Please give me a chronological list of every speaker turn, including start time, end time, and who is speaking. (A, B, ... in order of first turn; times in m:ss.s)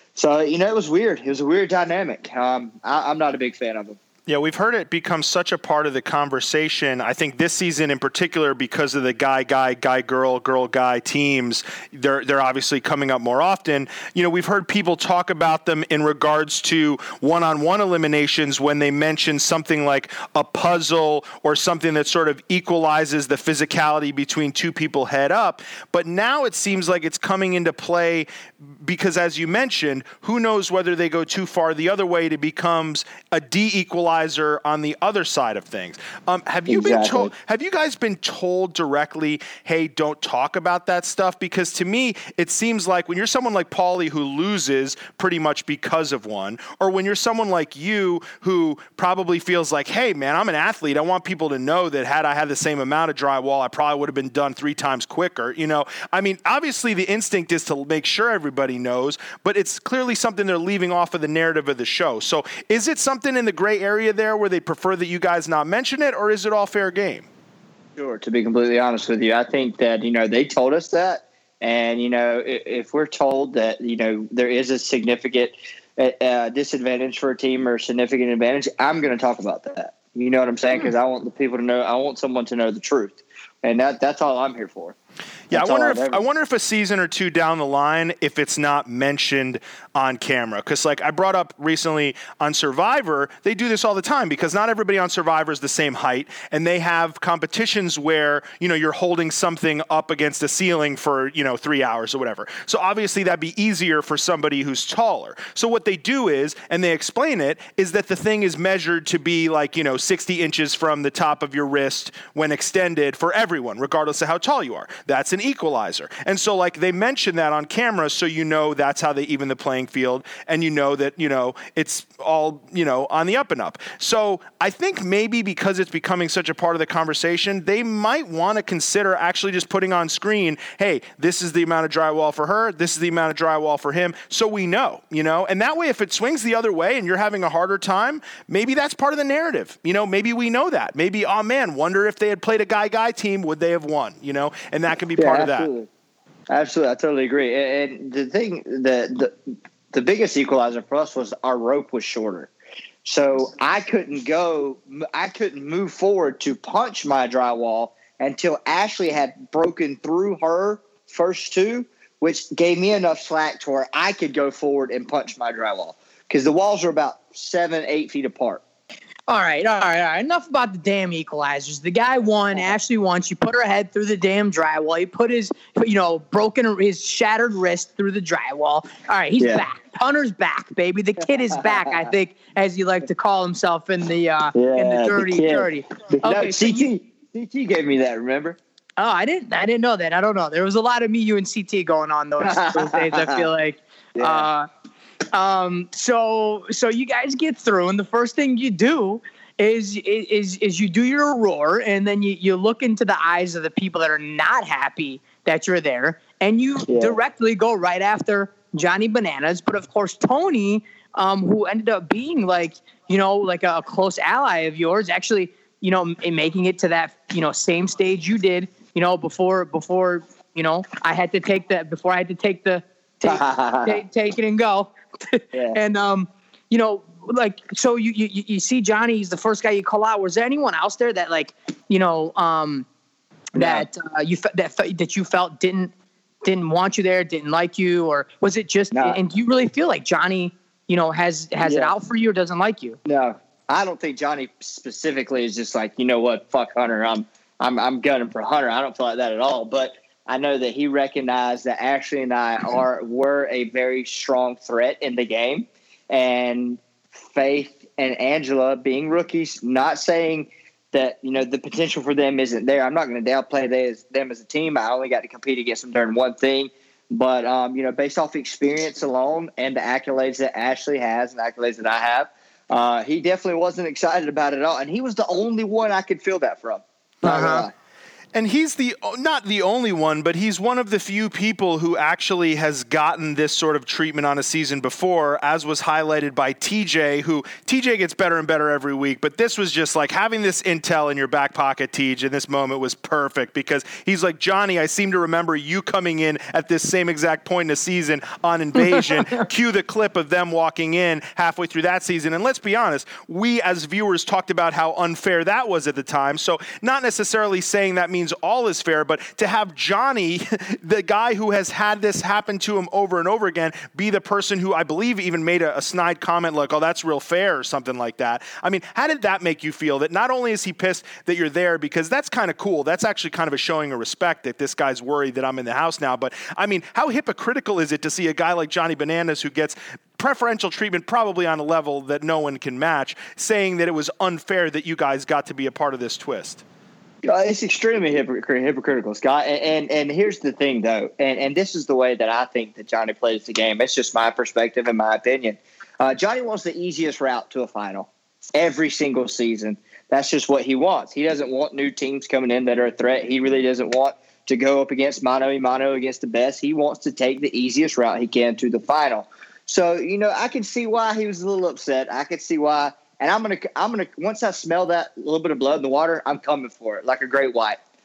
0:00.2-0:04.0 A
0:04.3-1:07.3 B
0:36.7-0:37.3 A
1:08.0-1:25.0 A
1:25.5-2:25.7 B
1:25.5-1:26.2 A
2:25.2-2:25.9 A
2:26.5-2:29.3 A
2:29.9-2:32.5 A
2:33.0-2:48.6 A
2:49.3-3:06.9 C
2:59.4-2:59.6 A
3:01.5-3:02.0 A
3:04.6-3:08.6 A
3:09.0-3:14.7 C
3:12.4-3:13.5 A
3:14.2-3:14.5 A
3:15.3-3:52.9 C
3:26.9-3:27.2 A
3:43.2-3:44.0 A
3:53.6-3:55.9 C
3:53.6-3:53.8 A
3:56.4-4:03.0 C
4:01.6-4:01.9 A
4:03.1-4:37.7 A
4:37.2-4:37.7 B
4:38.3-5:36.6 B
5:37.2-6:07.8 A